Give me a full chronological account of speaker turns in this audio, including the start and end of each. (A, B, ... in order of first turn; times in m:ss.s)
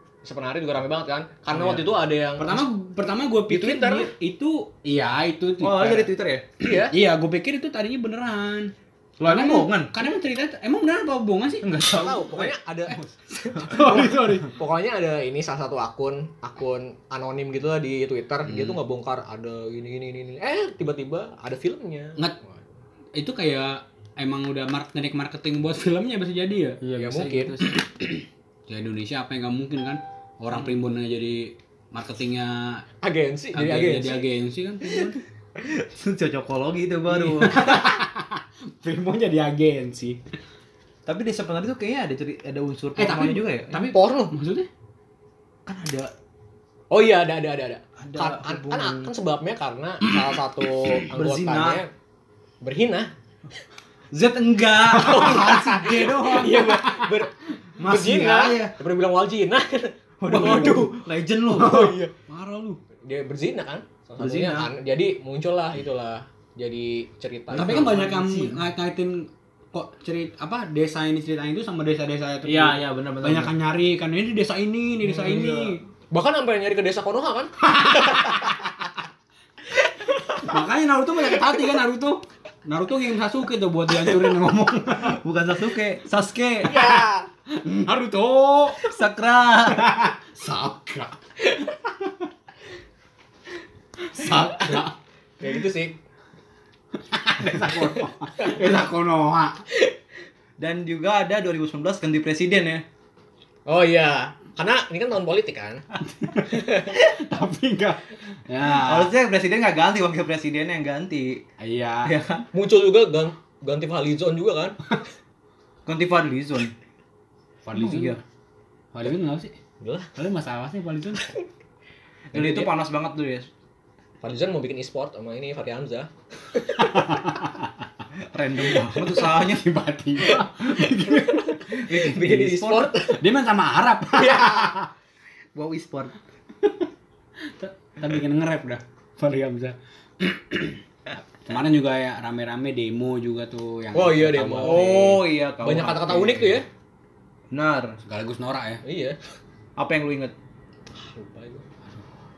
0:00.2-0:02.6 A
0:01.5-0:06.1 B
0:03.5-0:04.1 A
0:05.6-0:06.5 C
0:06.6-0:06.9 A
0:06.6-0:08.7 B
0:09.2-0:10.0 C
0:09.2-0:11.6 B
0:11.6-0:13.1 C
0:11.8-0:22.2 A
0:13.6-0:14.5 B
0:18.4-0:18.8 B
0:23.1-0:32.8 B
0:27.0-0:27.6 A
0:27.3-0:27.6 C
0:33.0-0:34.2 A
0:33.5-0:35.2 B
0:35.8-0:37.8 C
0:37.1-0:40.2 B
0:41.0-0:43.9 C
0:43.0-0:43.5 B
0:43.7-0:44.3 A
0:44.3-0:44.7 B
0:45.6-0:46.1 C
0:46.9-0:51.9 A
0:48.0-0:49.1 C
0:51.1-0:51.8 C
0:52.6-0:53.1 A
0:54.1-0:56.7 C
0:54.9-1:01.0 A
0:55.0-0:57.2 B
0:57.8-0:58.7 C
1:00.2-1:02.0 C
1:00.3-1:00.8 B
1:01.5-1:02.1 A
1:01.6-1:02.8 B
1:03.0-1:08.0 A
1:04.2-1:04.7 C
1:07.5-1:15.8 B
1:07.6-1:08.6 C
1:12.4-1:13.5 C
1:15.0-1:15.7 C
1:16.1-1:18.7 A
1:17.6-1:18.7 B
1:19.7-1:20.6 A
1:20.4-1:25.2 B
1:24.9-1:26.9 C
1:26.6-1:27.3 A
1:27.5-1:28.8 B
1:28.8-1:29.8 C
1:29.7-1:31.2 B
1:34.0-1:34.9 B
1:34.2-1:34.9 A
1:35.4-1:36.0 A
1:37.0-1:39.6 B
1:40.6-1:42.8 C
1:43.7-1:45.8 A
1:46.1-1:49.1 B
1:46.4-1:46.9 A
1:48.7-1:51.4 C
1:51.6-1:52.1 B
1:52.0-1:52.5 C
1:52.5-1:54.8 A
1:55.8-1:56.7 C
1:57.6-1:58.2 B
1:57.7-1:58.2 C
1:58.9-1:59.5 B
1:59.8-2:00.1 A
2:00.2-2:01.2 B
2:02.3-2:03.5 C
2:02.3-2:02.7 A
2:04.2-2:07.2 A
2:06.8-2:07.8 B
2:08.3-2:09.6 C
2:09.0-2:11.6 B
2:10.2-2:13.3 A
2:11.8-2:12.9 C
2:13.1-2:14.9 B
2:14.2-2:14.7 A
2:15.5-2:16.1 C
2:16.6-2:16.9 B
2:17.4-2:24.8 B
2:23.9-2:26.6 A
2:24.6-2:26.6 C
2:27.5-2:28.0 C
2:28.0-2:28.8 B
2:28.8-2:29.2 A
2:29.8-2:30.3 C
2:30.9-2:31.6 A